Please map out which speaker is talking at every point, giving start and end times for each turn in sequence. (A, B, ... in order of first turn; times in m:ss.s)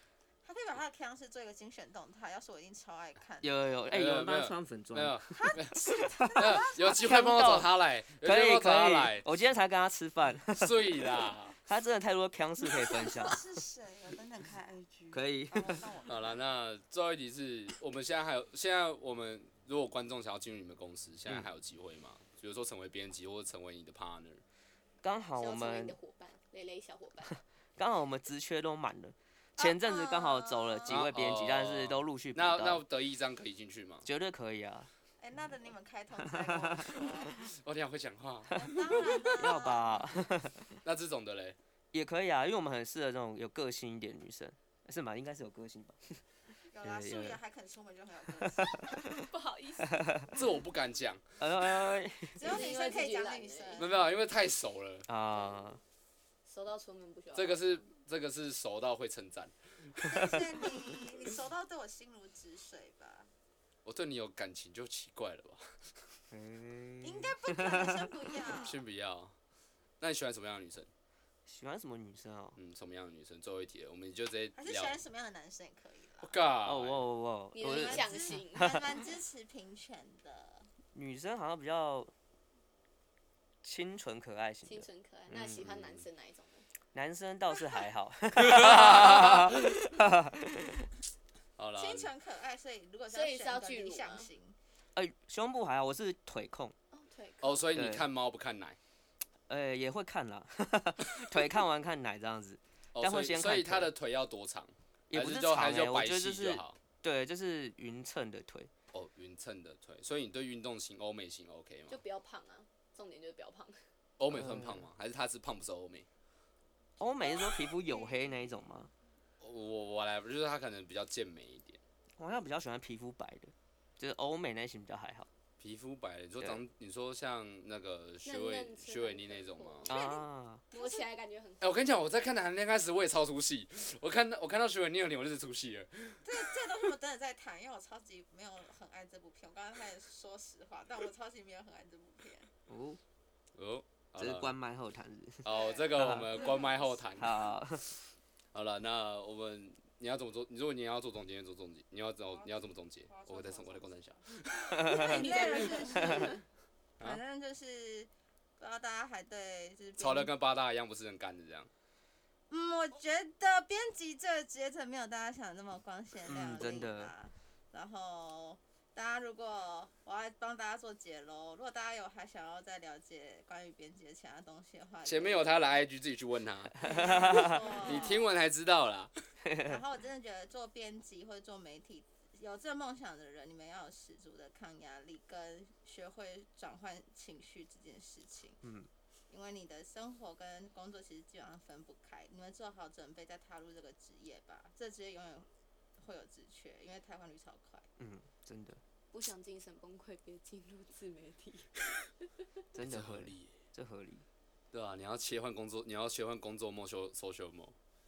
0:00.4-0:03.6 A
0:03.4-0:07.7 B
0:03.9-0:09.3 C
0:05.3-0:07.1 A
0:08.2-0:13.4 B
0:10.5-0:11.6 C
0:12.9-0:16.4 A
0:15.1-0:15.9 B
0:16.0-0:24.4 C
0:25.0-0:25.9 B
0:25.4-0:27.3 D
0:27.3-0:32.8 B
0:29.6-0:31.0 A
0:30.9-0:34.0 C
0:34.0-0:34.9 B
0:35.2-0:37.4 A
0:36.4-0:36.8 B
0:37.5-0:39.5 C
0:38.5-0:40.3 A
0:39.3-0:40.7 B
0:40.8-0:41.6 C
0:41.9-0:46.2 B
0:46.7-0:49.2 A
0:46.8-0:47.4 B
0:48.6-0:48.9 B
0:49.2-0:50.4 D
0:50.3-0:51.2 C
0:51.4-0:52.4 B
0:52.4-0:53.9 A
0:52.4-0:53.9 D
0:53.8-0:55.1 C
0:55.1-0:55.8 B
0:55.3-0:55.7 D
0:56.4-0:57.8 D
0:57.3-1:00.7 C
1:00.0-1:03.3 A
1:03.8-1:06.1 C
1:06.3-1:08.6 B
1:07.0-1:08.8 A
1:08.6-1:09.3 C
1:10.0-1:10.9 C
1:11.5-1:12.6 B
1:12.6-1:15.0 C
1:14.5-1:16.4 A
1:16.2-1:17.0 C
1:16.6-1:18.8 B
1:17.5-1:19.0 D
1:17.6-1:20.7 A
1:20.9-1:22.1 B
1:23.6-1:25.6 B
1:24.6-1:26.6 D
1:25.6-1:26.0 C
1:26.9-1:30.9 B
1:28.4-1:29.7 C
1:31.6-1:32.1 C
1:31.8-1:34.6 A
1:33.1-1:34.3 D
1:35.0-1:36.7 B
1:36.9-1:37.7 D
1:37.4-1:38.8 C
1:37.7-1:38.0 B
1:39.5-1:43.9 B
1:42.9-1:46.8 C
1:45.1-1:48.7 B
1:48.9-1:52.0 C
1:51.9-1:53.8 D
1:54.2-1:56.1 C
1:54.3-1:54.9 B
1:57.0-1:58.9 B
1:57.3-1:58.2 A
1:59.4-2:01.8 C
2:02.2-2:05.3 B
2:05.6-2:09.9 C
2:08.2-2:09.9 D
2:09.8-2:10.6 B
2:09.9-2:11.1 A
2:10.7-2:11.8 D
2:11.6-2:16.3 C
2:16.2-2:22.5 A
2:22.7-2:23.0 B
2:23.6-2:24.5 C
2:24.2-2:26.4 B
2:25.4-2:27.5 C
2:26.3-2:26.8 A
2:27.2-2:27.9 B
2:28.5-2:35.7 C
2:32.3-2:34.2 A
2:34.7-2:35.4 B
2:34.9-2:36.4 A
2:35.0-2:36.4 D
2:35.9-2:36.3 B
2:37.0-2:40.3 A
2:40.0-2:41.7 C
2:42.5-2:55.7 A
2:46.2-2:47.1 B
2:55.0-2:59.1 C
2:56.8-2:58.0 B
2:56.8-2:58.3 A
2:59.4-2:59.8 B
2:59.6-3:08.6 A
3:08.6-3:08.9 B
3:09.3-3:17.8 A
3:18.0-3:18.8 B
3:19.1-3:22.3 D
3:22.7-3:24.2 B
3:22.8-3:23.5 C
3:24.7-3:27.7 C